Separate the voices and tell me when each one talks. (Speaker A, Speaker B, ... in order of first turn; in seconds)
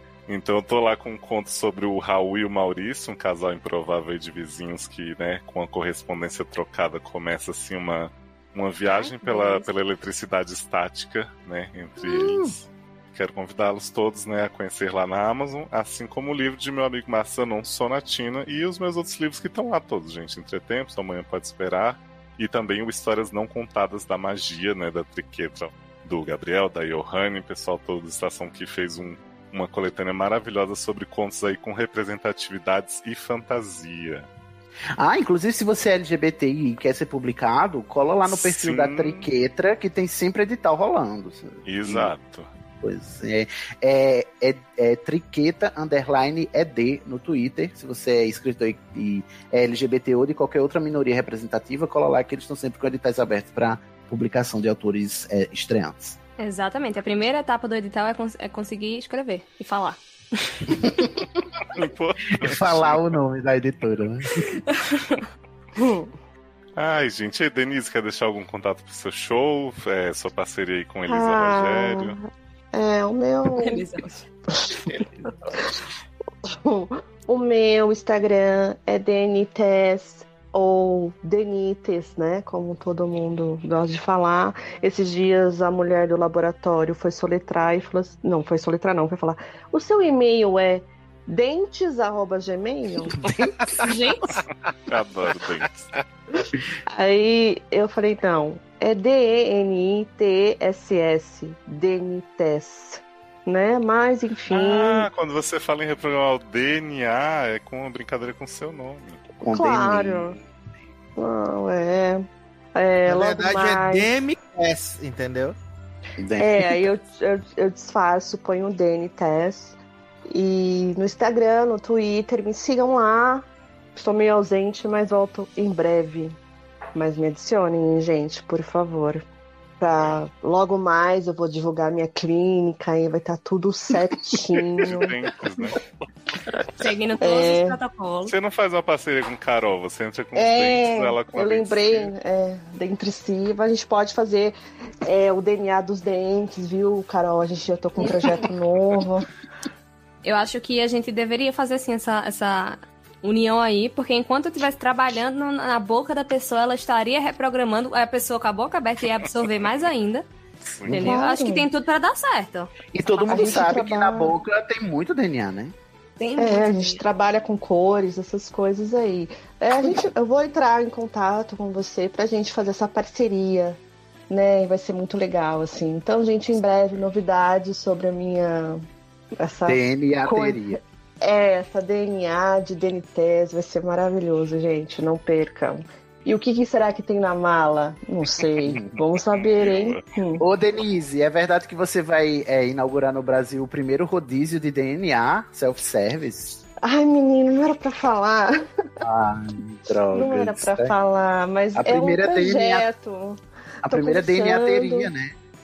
Speaker A: 0.3-34.3, 38.3-39.3, 41.6-42.5, 61.7-63.1, 66.8-72.2, 94.9-95.9, 104.5-109.2, 134.8-135.8, 138.3-142.1, 189.3-190.0
Speaker B: 8.9-9.7, 56.4-60.8, 64.8-65.2, 73.6-74.3, 93.8-94.3, 136.8-138.3, 150.2-160.3, 160.9-162.7, 166.2-167.0
Speaker C: 12.0-12.5, 35.0-42.1, 42.8-56.2, 60.8-61.1, 62.4-64.6, 93.2-93.7, 109.4-110.5, 116.2-116.9, 160.9-161.2, 162.9-165.8, 179.7-180.8, 188.6-189.0, 190.4-196.6, 199.0-201.0, 201.8-202.9, 203.8-205.3
Speaker D: 65.8-66.1, 71.1-73.9, 74.6-74.9, 76.5-93.2, 96.9-105.1, 109.5-110.4, 111.2-114.1, 116.4-119.8, 120.3-126.4, 127.0-129.2, 129.8-135.2, 137.2-137.8, 140.3-149.3, 160.9-161.7, 163.2-164.4, 166.4-178.8, 179.4-190.4, 196.8-198.6, 200.1-205.1
Speaker E: 113.1-115.6